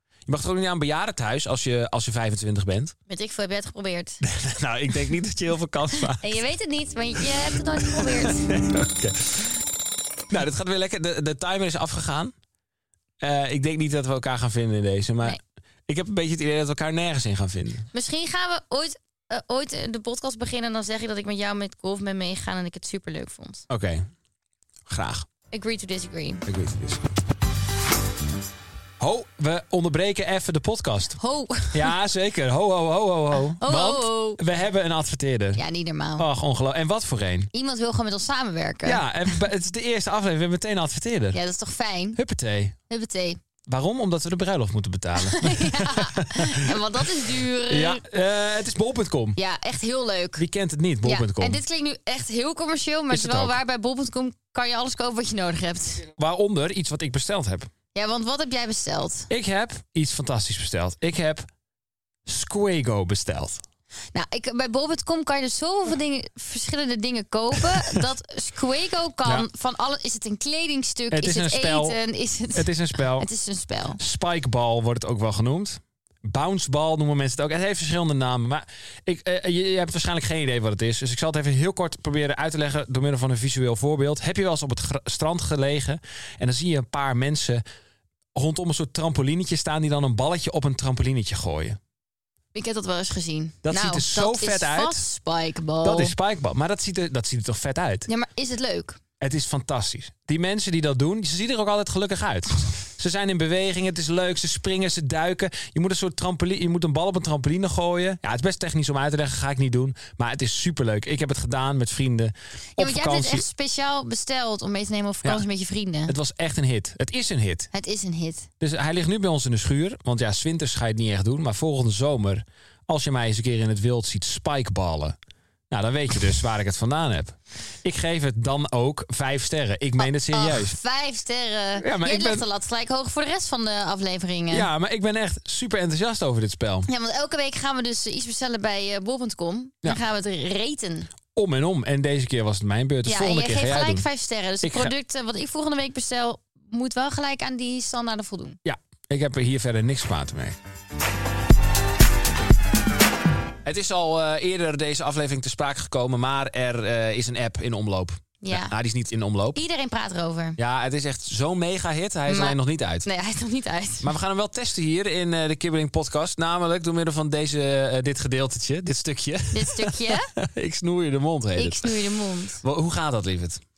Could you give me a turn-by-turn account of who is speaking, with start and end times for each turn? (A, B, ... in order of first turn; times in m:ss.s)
0:00.3-0:02.9 A
0:03.1-0:04.2 B
0:04.2-0:06.4 A
0:06.1-0:08.5 B
0:07.8-0:09.6 A
0:10.3-0:12.3 A
0:13.2-0:17.9 A
0:17.9-0:23.7 B
0:23.7-0:24.0 A
0:24.9-0:25.3 A
0:25.5-0:26.4 B
0:26.4-0:27.0 A
0:29.0-0:31.2 A
0:31.2-0:31.9 B
0:31.7-0:35.6 A
0:33.6-0:34.4 B
0:35.5-0:36.3 B
0:36.2-0:37.5 A
0:37.5-0:39.0 B
0:38.8-0:41.4 A
0:41.3-0:42.2 B
0:42.2-0:42.8 A
0:42.9-0:43.4 B
0:43.7-0:46.8 A
0:45.2-0:48.0 B
0:47.7-0:49.4 A
0:49.4-0:50.4 B
0:50.4-0:51.6 A
0:51.0-0:56.0 B
0:53.1-0:53.6 A
0:56.1-0:57.7 A
0:57.9-0:59.3 B
0:59.3-1:01.5 A
1:02.2-1:03.6 A
1:04.1-1:14.0 B
1:11.1-1:12.0 A
1:12.5-1:13.3 A
1:14.0-1:27.6 A
1:28.3-1:31.8 A
1:32.5-1:36.1 B
1:33.6-1:35.0 A
1:35.8-1:38.1 A
1:38.1-1:39.0 B
1:39.2-1:53.4 A
1:52.8-1:56.1 B
1:56.1-1:57.7 A
1:57.7-1:58.5 B
1:58.6-2:05.2 A
2:05.7-2:10.7 A
2:10.0-2:14.7 B
2:11.8-2:12.4 A
2:14.5-2:16.9 A
2:16.9-2:21.1 B
2:21.3-2:24.0 A
2:23.0-2:28.6 B
2:24.6-2:24.9 A
2:28.6-2:30.6 A
2:33.6-2:39.6 A
2:38.4-2:38.7 B
2:39.5-2:40.6 B
2:40.6-2:43.0 A
2:42.3-2:44.1 B
2:44.0-2:53.6 A
2:49.5-2:50.3 B
2:51.5-2:52.6 B